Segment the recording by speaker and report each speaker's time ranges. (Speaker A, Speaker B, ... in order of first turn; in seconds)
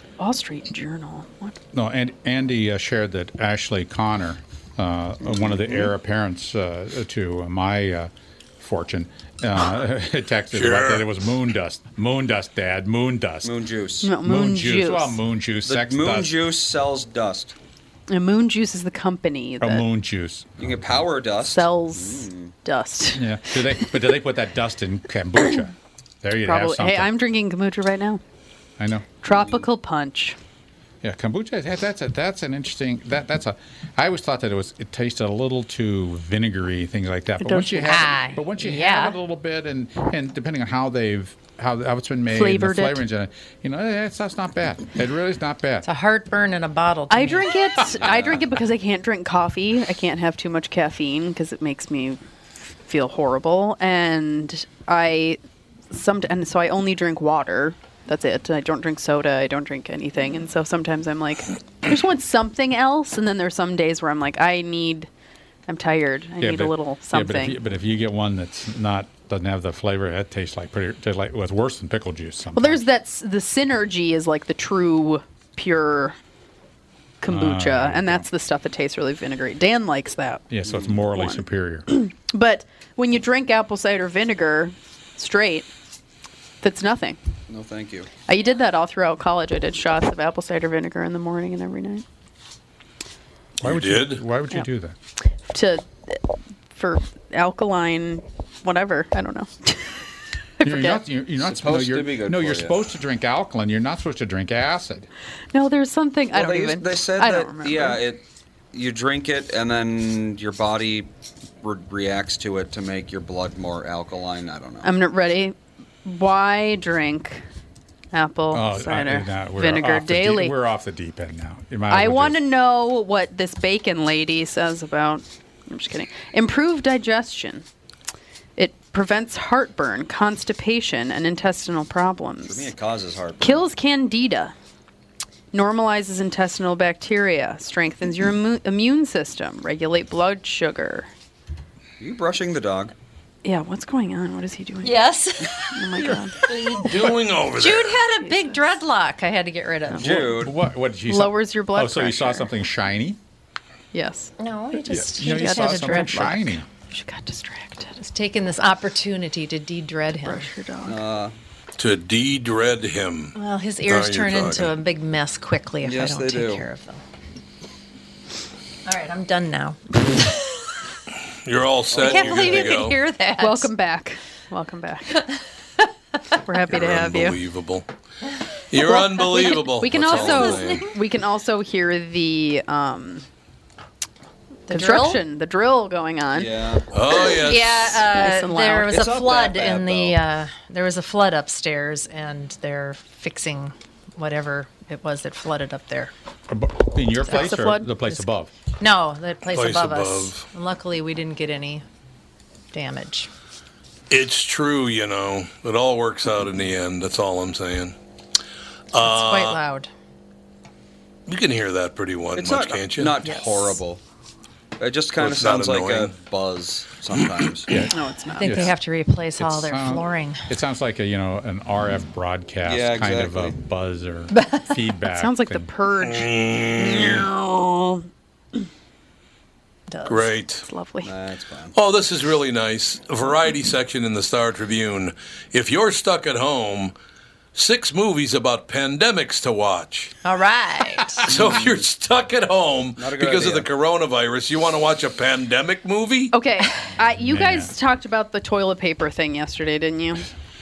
Speaker A: 0.2-1.6, 14.0-15.2, 18.1-19.8, 21.4-23.3, 26.4-28.2, 29.2-30.4, 37.4-38.1, 42.3-43.0, 47.1-52.2, 52.8-55.4, 55.9-65.1, 65.7-67.6, 72.5-76.2, 77.2-80.5, 81.1-85.7, 86.6-87.2, 88.2-92.0, 95.4-96.2, 96.7-100.0, 100.6-101.0, 105.5-108.0, 114.8-117.4, 118.1-120.5, 121.9-127.7, 128.6-132.7, 133.4-134.5, 135.5-141.1, 143.4-145.0, 145.6-146.5, 148.2-148.5, 151.1-152.5, 153.9-158.0, 160.2-161.0, 173.4-175.2, 176.4-177.4, 178.8-183.2, 184.7-186.8, 188.0-189.0, 197.3-198.2, 213.3-213.8, 217.9-218.7, 225.1-228.0, 230.6-231.1, 246.3-250.3
Speaker B: 1.7-13.5, 14.2-16.4, 19.6-20.5, 23.1-27.1, 28.8-29.1, 31.0-45.9, 66.4-72.8, 77.3-78.3, 80.5-81.9, 93.6-94.9, 100.6-105.1, 118.5-122.4, 150.2-153.2, 154.9-156.7, 196.5-198.5, 217.7-218.7, 219.4-225.7, 247.2-247.7
Speaker C: 5.2-5.9, 13.4-14.1, 15.7-17.5, 20.6-22.5, 29.3-29.6, 48.0-48.4, 80.6-81.0, 87.5-88.1, 101.4-102.8, 106.3-111.1, 111.6-114.9, 132.5-133.7, 142.0-142.9, 149.9-150.6, 160.8-161.3, 165.8-166.6, 171.9-172.6, 186.3-187.3, 188.9-190.2, 212.3-214.0, 214.8-217.7, 222.6-223.6, 231.0-231.7, 241.3-241.8, 243.0-243.7
Speaker D: 10.5-11.1, 93.6-94.2, 146.7-148.0, 161.8-164.7, 171.4-173.0, 176.7-177.9, 178.7-180.9, 186.9-188.0, 199.5-200.5, 204.1-207.9, 208.9-209.6, 211.3-213.1, 215.2-216.2, 226.0-227.3, 230.1-230.7, 231.7-236.9, 237.5-240.1, 241.2-246.3
Speaker E: 37.8-39.1, 45.8-47.5, 144.8-150.2, 154.4-156.3, 158.0-160.5, 163.3-167.0, 168.8-170.3, 171.9-173.7, 180.1-180.8, 184.7-185.2, 187.3-196.1, 198.8-201.8, 202.7-203.3, 209.0-209.9, 218.4-220.5, 224.3-224.6, 229.9-230.3, 240.2-241.3